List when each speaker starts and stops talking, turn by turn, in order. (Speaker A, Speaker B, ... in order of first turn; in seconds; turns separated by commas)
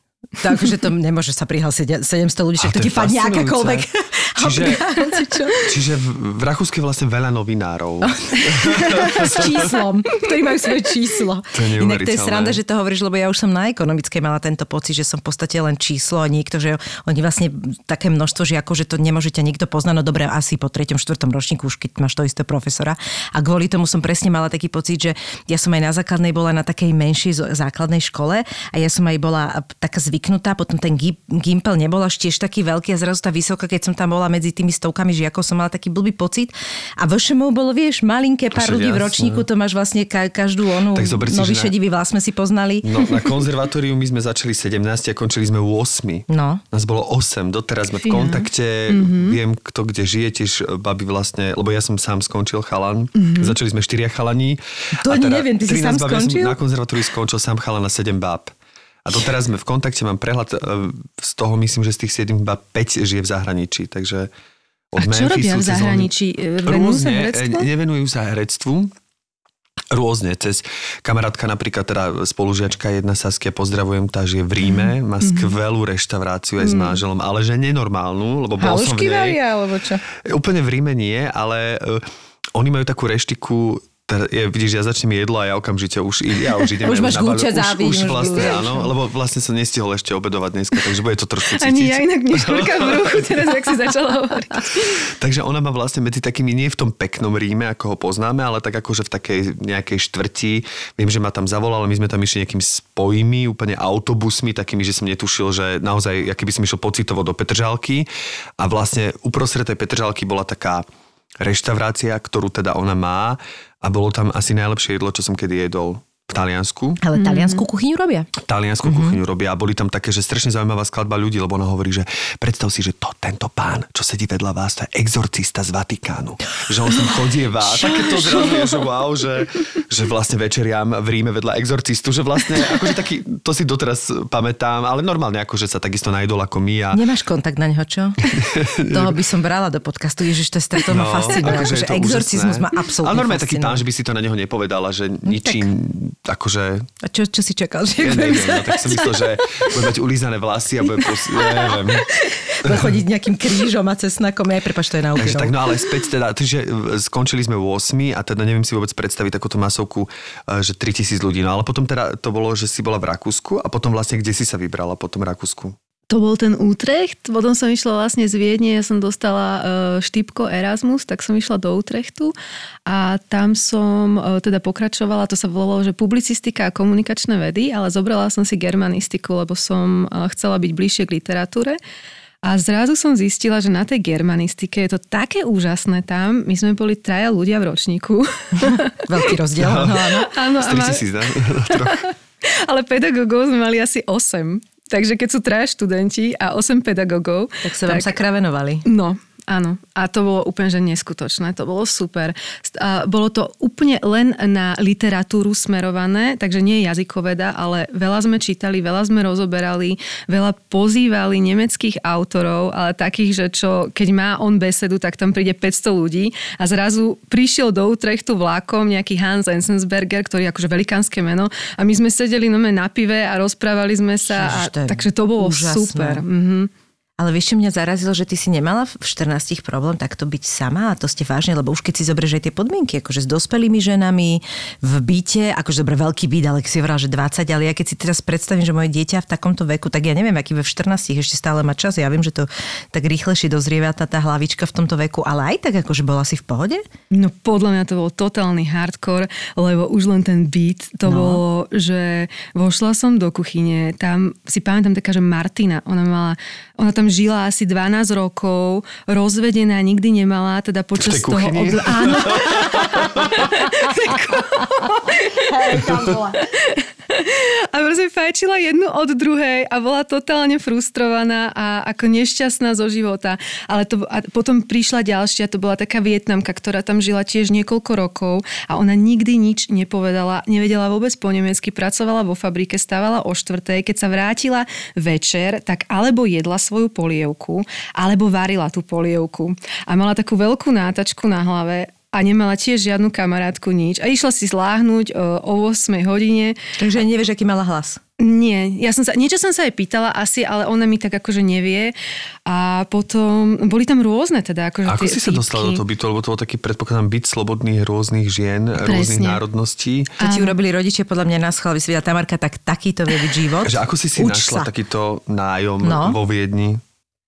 Speaker A: 0.4-5.7, Speaker B: 2.6-3.9, Speaker B: 4.4-4.9, Speaker B: 5.6-9.7, Speaker A: 8.0-42.9, Speaker B: 11.5-12.6, Speaker B: 38.5-39.5, Speaker B: 40.9-41.7, Speaker B: 42.8-58.5, Speaker A: 46.3-46.6, Speaker C: 48.0-49.4, Speaker C: 53.2-53.6, Speaker A: 55.0-56.6, Speaker B: 59.0-64.3, Speaker B: 64.9-66.1, Speaker C: 65.0-67.7, Speaker B: 66.6-68.9, Speaker B: 69.9-79.4, Speaker C: 74.8-75.6, Speaker C: 76.6-77.0, Speaker A: 78.6-80.0, Speaker B: 80.2-93.5, Speaker A: 86.8-88.9, Speaker C: 88.3-88.6, Speaker C: 91.6-95.0, Speaker B: 95.1-108.1, Speaker B: 108.6-110.8, Speaker B: 111.4-117.0, Speaker A: 117.0-118.3, Speaker C: 117.2-117.6, Speaker B: 118.4-137.0, Speaker A: 118.8-119.2, Speaker C: 127.8-128.7, Speaker A: 136.9-138.3, Speaker B: 138.3-139.2, Speaker A: 138.9-143.8, Speaker B: 140.9-146.9, Speaker A: 145.2-145.7, Speaker A: 147.0-149.9, Speaker B: 148.0-152.1, Speaker A: 151.0-151.8, Speaker A: 152.6-155.6, Speaker B: 152.6-153.0, Speaker B: 155.2-165.8, Speaker C: 166.1-172.3, Speaker C: 172.9-181.8, Speaker C: 182.4-189.1, Speaker A: 188.7-190.3, Speaker B: 189.6-190.1, Speaker C: 190.2-198.2, Speaker B: 190.6-192.1, Speaker A: 197.6-198.8, Speaker C: 198.8-226.7, Speaker A: 224.2-226.2, Speaker A: 227.2-246.8, Speaker C: 247.1-265.9, Speaker A: 251.1-251.4, Speaker B: 261.0-263.3, Speaker A: 262.0-262.9, Speaker A: 263.9-266.4, Speaker C: 266.6-296.6, Speaker A: 296.8-298.0, Speaker C: 298.2-301.9, Speaker C: 302.5-305.8, Speaker B: 304.9-310.1, Speaker C: 308.8-309.4, Speaker C: 310.2-310.6, Speaker A: 310.2-314.7, Speaker B: 313.6-316.8, Speaker A: 315.8-316.2